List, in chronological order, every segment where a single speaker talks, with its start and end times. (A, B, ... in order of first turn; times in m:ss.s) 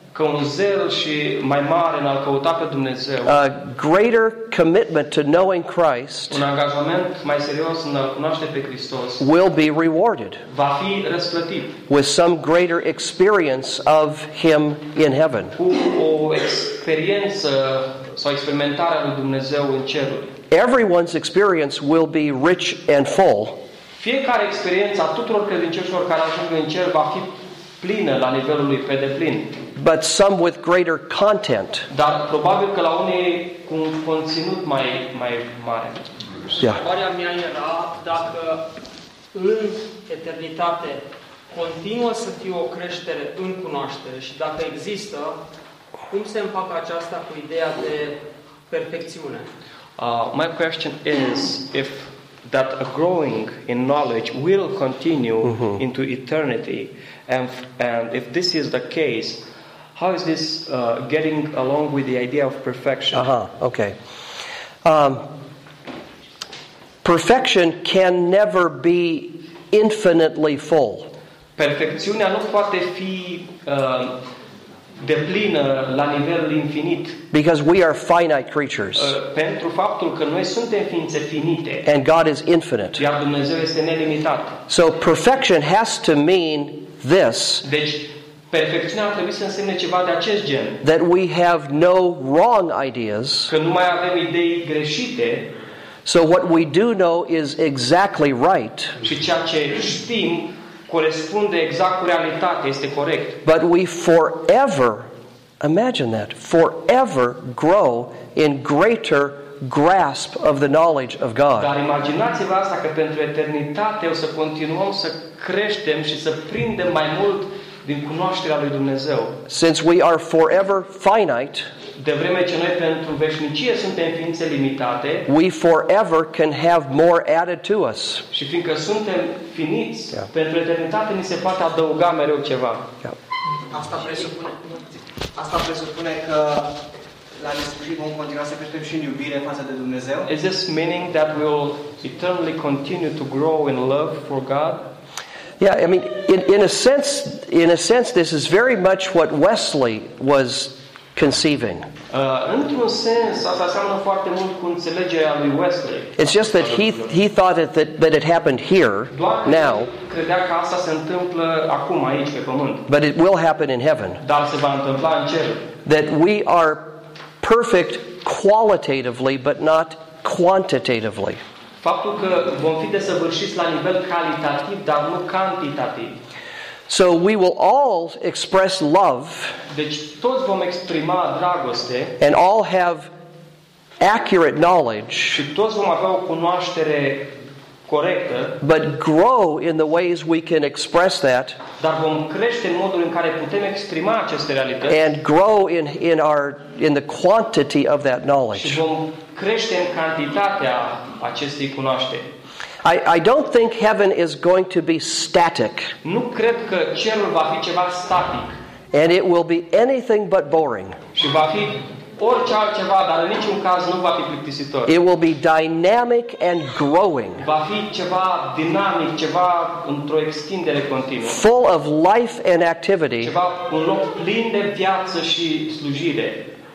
0:00.1-0:03.4 A
0:03.2-0:06.4 B
0:06.3-0:09.2 A
0:09.2-0:10.4 B
0:10.5-0:11.8 A
0:11.9-0:15.6 B
0:15.6-0:20.3 A
0:20.5-0:23.6 B
0:24.0-0:29.6 A
0:29.8-0:31.9 B
0:31.9-0:36.1 A
0:36.6-0:38.6 C
0:39.3-0:45.4 C
0:46.1-0:48.2 C
0:48.7-0:49.5 C
0:50.0-0:59.4 A
0:55.5-0:55.8 B
1:00.0-1:03.3 A
1:03.1-1:04.0 B
1:04.8-1:05.3 B
1:07.0-1:11.1 B
1:11.6-1:14.2 A
1:15.0-1:17.2 A
1:17.3-1:19.2 B
1:19.0-1:21.8 A
1:21.8-1:23.0 B
1:23.0-1:24.6 A
1:24.7-1:27.6 B
1:27.6-1:30.8 A
1:30.8-1:33.5 B
1:33.5-1:35.5 A
1:36.1-1:39.0 B
1:39.0-1:43.4 A
1:43.4-1:51.7 B
1:51.6-1:59.4 A
1:59.5-2:01.7 B
2:02.0-2:05.3 A
2:05.3-2:08.2 B
2:08.3-2:12.9 A
2:13.7-2:16.7 D
2:17.4-2:20.3 D
2:20.3-2:24.9 A
2:25.6-2:31.9 B
2:32.1-2:37.0 A
2:36.2-2:39.9 B
2:39.1-2:42.9 A
2:42.9-2:44.2 B
2:44.2-2:45.7 A
2:45.8-2:51.4 B
2:51.8-2:56.2 A
2:56.9-2:59.6 B
2:59.7-3:02.2 A
3:02.2-3:03.1 B
3:04.0-3:05.4 B
3:05.4-3:07.3 A
3:07.9-3:08.6 A
3:08.6-3:11.6 B
3:11.8-3:15.0 A
3:14.9-3:18.8 B
3:18.6-3:22.3 A
3:22.8-3:25.9 B
3:26.0-3:28.5 A
3:28.9-3:31.0 B
3:31.2-3:34.9 A
3:34.9-3:37.4 B
3:37.4-3:41.4 A
3:41.2-3:43.3 B
3:43.2-3:46.5 A